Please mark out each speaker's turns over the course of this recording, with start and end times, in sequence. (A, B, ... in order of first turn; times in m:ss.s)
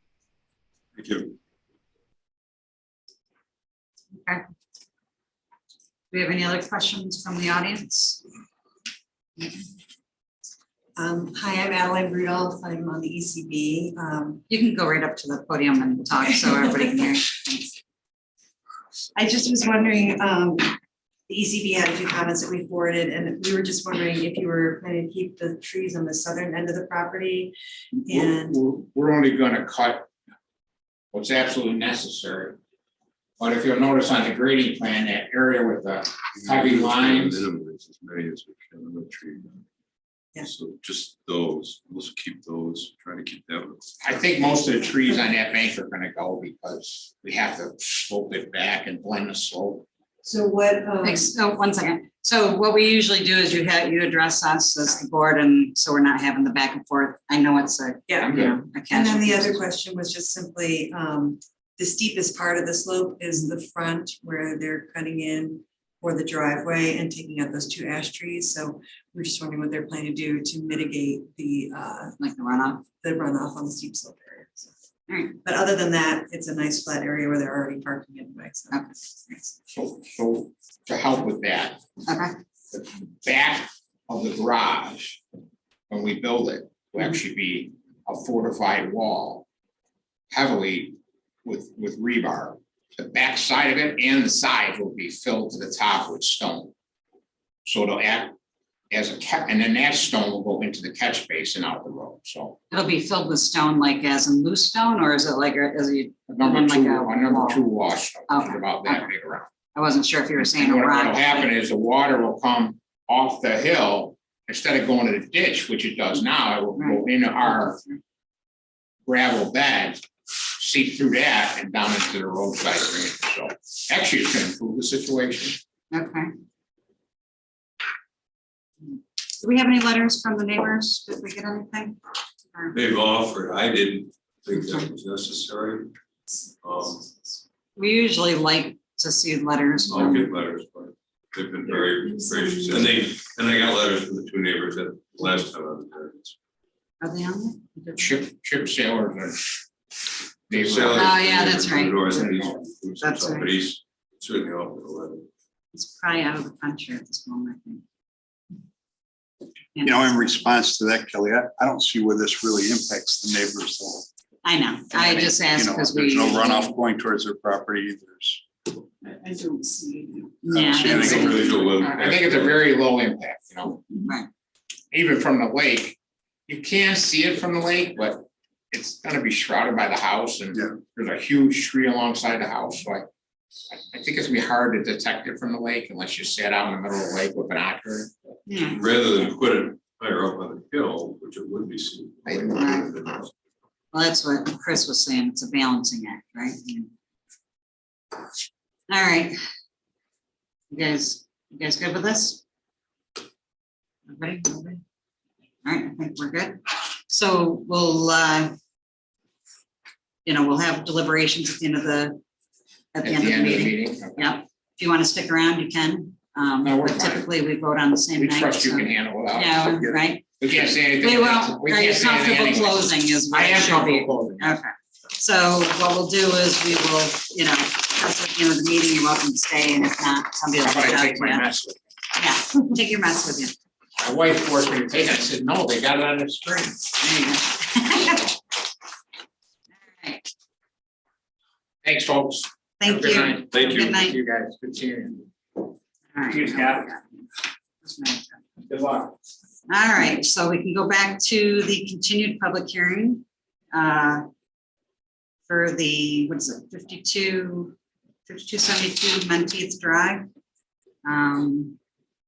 0:01.0-0:01.3 A
0:06.1-0:08.2 B
0:11.0-0:14.4 C
0:14.5-0:17.7 B
0:19.2-0:20.7 C
0:21.3-0:27.5 C
0:28.0-0:30.1 D
0:28.1-0:28.6 C
0:31.1-0:32.6 D
0:33.4-0:37.4 D
0:36.4-0:39.6 A
0:40.4-0:43.8 A
0:44.0-0:49.8 D
0:50.2-0:51.3 C
0:51.0-0:59.6 B
0:58.1-1:12.2 C
0:58.2-0:58.6 D
1:12.2-1:12.8 B
1:13.0-1:14.7 C
1:15.1-1:15.4 B
1:15.4-1:18.8 C
1:18.7-1:19.5 B
1:19.7-1:21.8 D
1:22.1-1:22.3 B
1:22.7-1:25.2 D
1:25.9-1:29.4 D
1:30.3-1:36.7 D
1:37.6-1:38.3 D
1:38.9-1:42.6 D
1:42.7-1:47.6 B
1:46.3-1:49.5 D
1:48.3-1:49.1 B
1:49.7-1:51.5 B
1:50.4-1:57.8 D
1:56.8-1:58.0 B
1:59.0-2:00.0 D
2:00.6-2:05.6 D
2:05.9-2:06.3 B
2:09.4-2:12.0 B
2:12.7-2:15.9 A
2:14.6-2:14.8 B
2:16.6-2:17.1 A
2:17.8-2:20.3 B
2:19.9-2:26.3 A
2:27.0-2:28.2 B
2:28.0-2:29.5 D
2:30.5-2:31.4 D
2:30.5-2:35.2 A
2:31.0-2:32.3 B
2:32.1-2:32.6 D
2:33.0-2:33.5 B
2:35.7-2:37.8 B
2:39.7-2:40.3 B
2:39.8-2:44.1 E
2:44.4-2:46.7 B
2:44.9-2:48.4 E
2:50.4-2:51.5 B
2:50.5-2:51.7 E
2:50.8-2:52.6 A
2:51.1-2:53.8 D
2:54.9-2:56.0 D
2:56.5-3:03.0 D
3:03.7-3:08.1 D
3:08.5-3:08.8 B
3:08.7-3:13.3 A
3:12.5-3:12.9 B
3:13.9-3:16.9 B
3:18.9-3:19.4 B
3:20.7-3:22.4 B
3:24.1-3:24.8 B
3:25.6-3:28.5 B
3:30.2-3:32.2 B
3:32.9-3:51.4 B
3:33.0-3:34.4 D
3:36.6-3:37.3 D
3:38.2-3:39.9 D
3:40.4-3:44.6 D
3:50.6-3:51.8 D
3:52.2-3:53.5 B
3:54.0-3:56.8 D
3:57.0-3:58.3 B
3:59.9-4:00.2 B
4:01.8-4:05.2 D
4:02.8-4:04.2 B
4:06.1-4:07.2 B
4:06.3-4:06.9 D
4:07.8-4:08.4 B
4:08.7-4:09.2 D
4:09.7-4:14.2 B
4:15.5-4:17.7 B
4:18.2-4:20.2 B
4:21.0-4:21.8 B